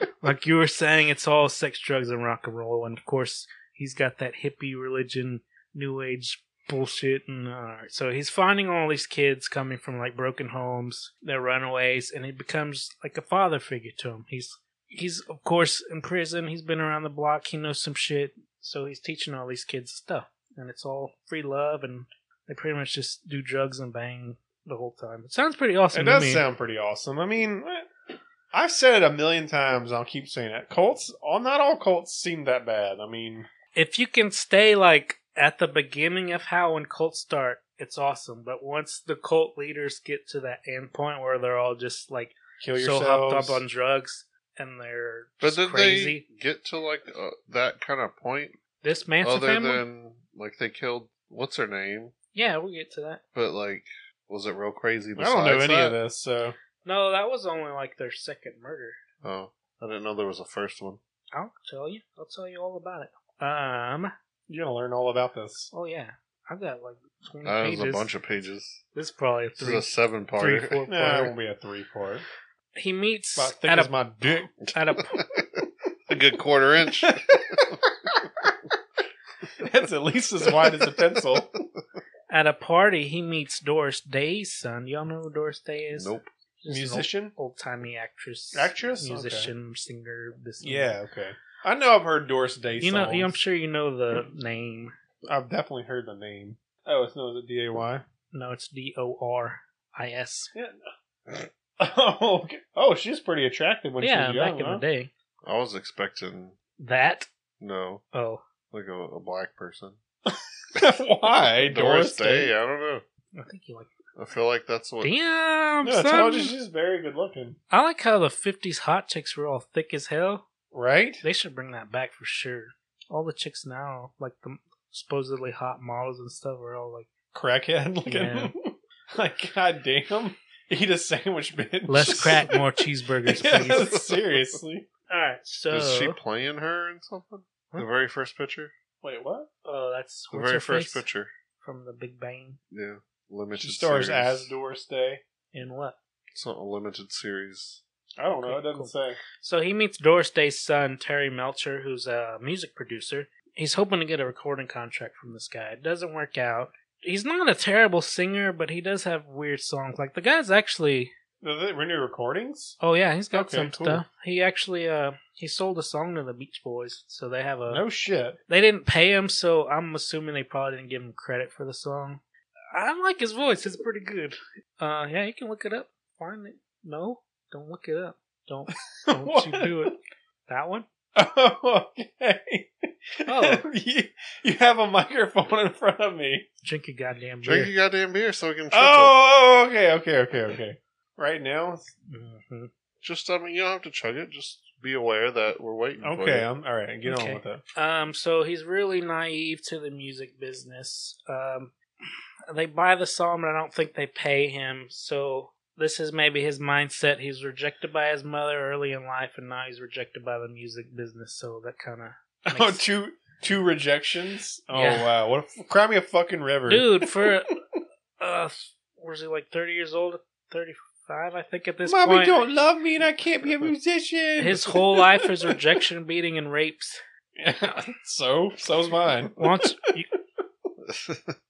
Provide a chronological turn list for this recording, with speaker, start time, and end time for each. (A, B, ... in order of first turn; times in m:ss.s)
0:00.2-0:26.4 A
0:25.9-0:27.9 B
0:28.5-0:33.5 B
0:33.8-0:46.2 A
0:42.6-0:43.6 B
0:45.4-0:48.6 C
0:48.8-0:49.8 A
0:49.2-0:52.1 C
0:52.3-0:53.2 A
0:53.3-0:56.0 C
0:55.2-0:56.6 B
0:56.8-0:59.0 A
0:59.2-1:01.0 C
1:01.3-1:04.1 A
1:04.5-1:05.7 B
1:05.7-1:08.1 A
1:07.4-1:08.8 C
1:08.9-1:11.3 A
1:09.6-1:10.8 C
1:10.9-1:12.3 B
1:12.8-1:13.9 A
1:13.4-1:14.5 B
1:14.7-1:15.2 A
1:16.1-1:17.8 C
1:17.0-1:17.6 B
1:19.6-1:21.5 B
1:21.4-1:21.6 C
1:22.3-1:30.9 A
1:26.0-1:26.3 C
1:26.7-1:27.3 B
1:28.5-1:29.5 B
1:30.6-1:33.4 B
1:32.8-1:34.9 A
1:35.3-1:38.0 B
1:38.3-1:40.5 A
1:41.3-1:44.8 B
1:44.0-1:45.1 A
1:45.4-1:46.6 C
1:46.8-1:47.3 A
1:47.6-1:48.0 C
1:48.1-1:48.4 A
1:48.7-1:50.0 C
1:50.3-1:52.5 B
1:51.6-1:53.0 C
1:53.4-1:53.9 A
1:54.2-1:55.1 C
1:55.0-1:56.5 A
1:55.8-1:57.6 B
1:57.7-2:00.4 A
2:00.7-2:01.2 B
2:01.2-2:07.1 A
2:07.3-2:12.6 B
2:08.1-2:08.5 A
2:11.9-2:13.9 A
2:13.3-2:14.9 B
2:13.4-2:14.4 C
2:15.1-2:16.2 A
2:15.7-2:18.7 C
2:19.0-2:19.5 B
2:19.6-2:21.0 A
2:20.3-2:21.3 C
2:21.6-2:22.6 A
2:22.7-2:24.5 C
2:23.6-2:25.2 B
2:25.5-2:26.0 A
2:26.3-2:27.8 C
2:28.2-2:29.2 B
2:28.4-2:41.1 A
2:41.4-2:42.8 B
2:42.8-2:47.8 A
2:43.3-2:44.0 B
2:47.7-2:48.4 B
2:48.5-2:52.2 A
2:52.7-3:00.0 A
2:59.0-3:00.0 B
3:00.5-3:00.9 A
3:01.2-3:06.5 B
3:03.3-3:03.6 A
3:06.6-3:07.7 A
3:07.4-3:09.2 C
3:08.7-3:11.9 B
3:12.1-3:12.7 A
3:13.0-3:16.5 C
3:16.0-3:17.6 B
3:17.1-3:21.7 A
3:22.5-3:32.8 A
3:32.5-3:37.3 B
3:34.7-3:35.1 A
3:36.7-3:37.6 A
3:38.2-3:42.4 A
3:41.9-3:45.5 B
3:44.4-3:47.0 A
3:47.4-3:49.7 B
3:49.4-3:50.1 A
3:50.8-3:51.4 C